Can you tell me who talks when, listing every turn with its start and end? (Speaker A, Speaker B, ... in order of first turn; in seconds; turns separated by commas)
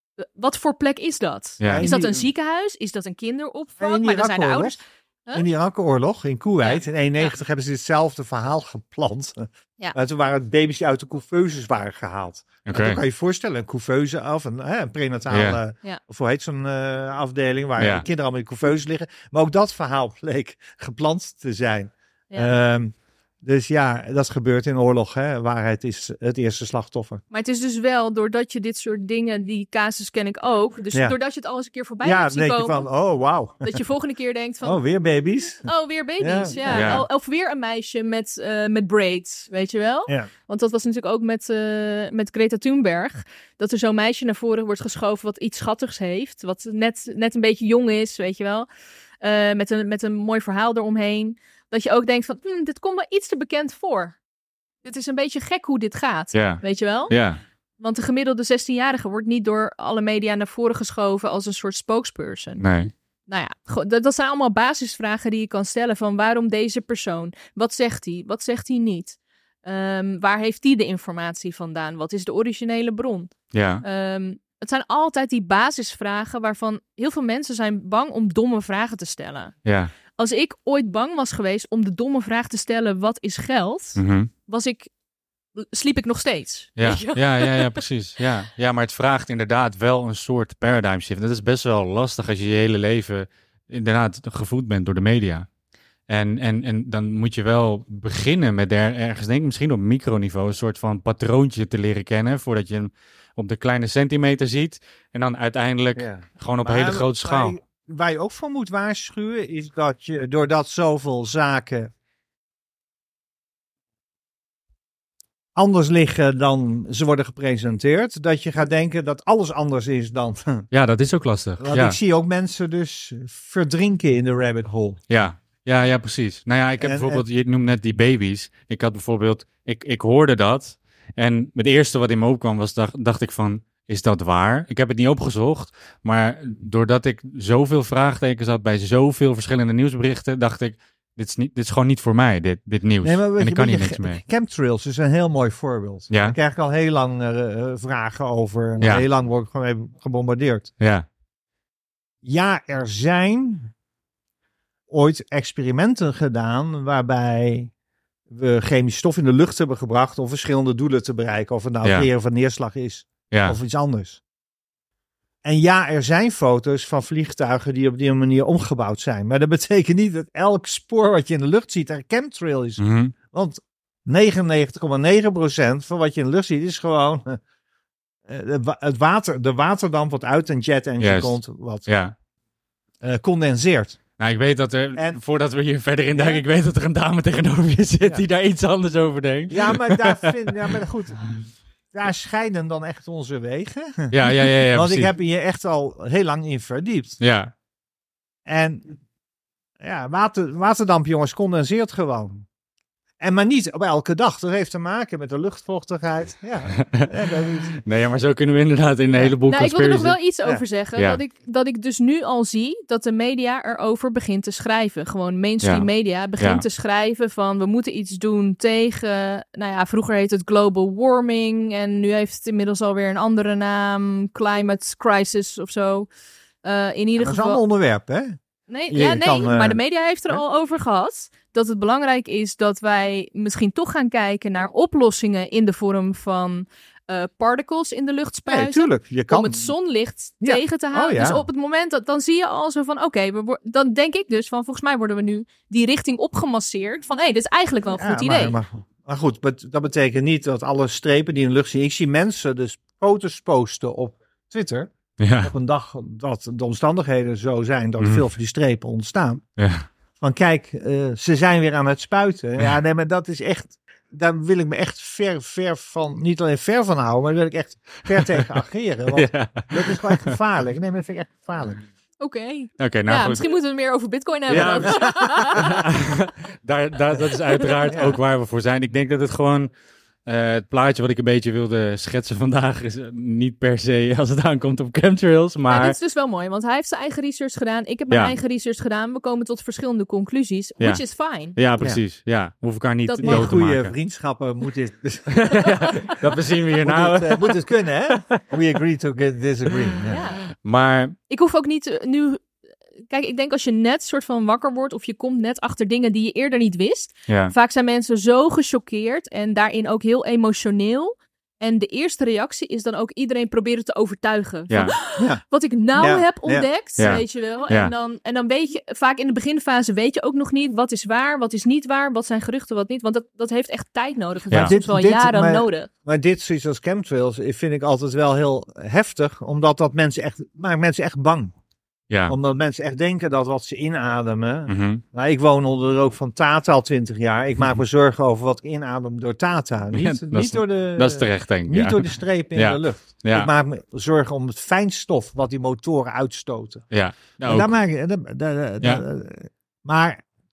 Speaker A: 0.2-5.4, Speaker B: 1.6-1.9, Speaker C: 1.7-2.3, Speaker C: 3.8-4.8, Speaker C: 5.3-27.2, Speaker A: 6.6-7.3, Speaker B: 12.7-13.0, Speaker B: 15.3-15.6, Speaker B: 17.8-18.1, Speaker A: 27.3-32.9, Speaker C: 32.0-33.8, Speaker A: 33.6-34.8, Speaker C: 34.6-35.7, Speaker A: 35.6-48.7, Speaker C: 36.2-37.0, Speaker B: 36.7-37.0, Speaker A: 49.2-54.2, Speaker A: 54.8-57.2, Speaker B: 56.3-57.4, Speaker A: 57.8-62.6, Speaker B: 62.6-62.9, Speaker A: 63.3-79.5, Speaker B: 73.5-73.8, Speaker B: 79.7-79.9, Speaker A: 80.2-84.9, Speaker B: 84.0-84.3, Speaker A: 85.6-87.8, Speaker B: 86.8-95.5, Speaker B: 96.1-107.6, Speaker C: 106.0-111.9, Speaker C: 115.5-120.7, Speaker B: 120.7-122.0, Speaker C: 121.6-125.0, Speaker B: 125.1-144.2, Speaker C: 126.8-127.2, Speaker C: 143.0-150.7, Speaker B: 146.1-146.4, Speaker B: 148.8-149.1, Speaker B: 150.8-151.1, Speaker C: 152.2-153.7, Speaker C: 154.9-157.7, Speaker C: 158.3-164.2, Speaker B: 161.8-162.1, Speaker B: 163.3-163.6, Speaker C: 165.4-177.4, Speaker B: 172.8-173.1, Speaker C: 178.3-181.8, Speaker B: 181.0-182.2, Speaker C: 183.0-184.0, Speaker B: 184.2-190.4, Speaker C: 184.9-185.2, Speaker C: 186.1-186.4, Speaker C: 189.5-197.2, Speaker B: 194.1-195.1, Speaker B: 197.2-197.5, Speaker C: 198.5-198.9, Speaker C: 199.8-202.5, Speaker C: 203.2-207.7, Speaker B: 206.8-207.1, Speaker B: 207.7-210.2, Speaker A: 209.5-226.1, Speaker B: 211.0-211.2, Speaker B: 215.6-216.6, Speaker A: 226.6-227.6, Speaker C: 227.2-228.4, Speaker A: 228.7-248.6, Speaker C: 228.9-230.4, Speaker C: 238.5-239.7, Speaker C: 240.4-241.4, Speaker C: 247.9-259.4, Speaker B: 255.2-255.5, Speaker B: 258.0-258.2, Speaker B: 259.6-259.9, Speaker C: 260.2-271.8, Speaker B: 269.1-270.3, Speaker A: 272.2-275.8, Speaker B: 272.8-273.5, Speaker B: 274.5-279.7, Speaker C: 274.5-275.8, Speaker A: 277.6-277.9, Speaker C: 277.9-278.2, Speaker B: 280.3-286.0, Speaker A: 285.7-291.6, Speaker B: 288.1-288.4, Speaker B: 290.8-293.9, Speaker A: 293.1-293.6, Speaker C: 293.2-296.2, Speaker B: 295.4-298.4, Speaker A: 295.6-296.2, Speaker C: 296.8-300.2, Speaker A: 300.1-300.4, Speaker B: 300.6-301.1, Speaker A: 301.3-302.6, Speaker A: 303.1-325.9, Speaker B: 307.3-307.5, Speaker B: 314.7-314.9, Speaker C: 315.1-317.2, Speaker B: 317.0-317.9, Speaker C: 324.5-331.5, Speaker B: 332.1-332.4, Speaker C: 332.3-346.9, Speaker B: 334.7-335.0, Speaker B: 339.9-343.5, Speaker B: 346.9-347.7, Speaker C: 347.4-350.2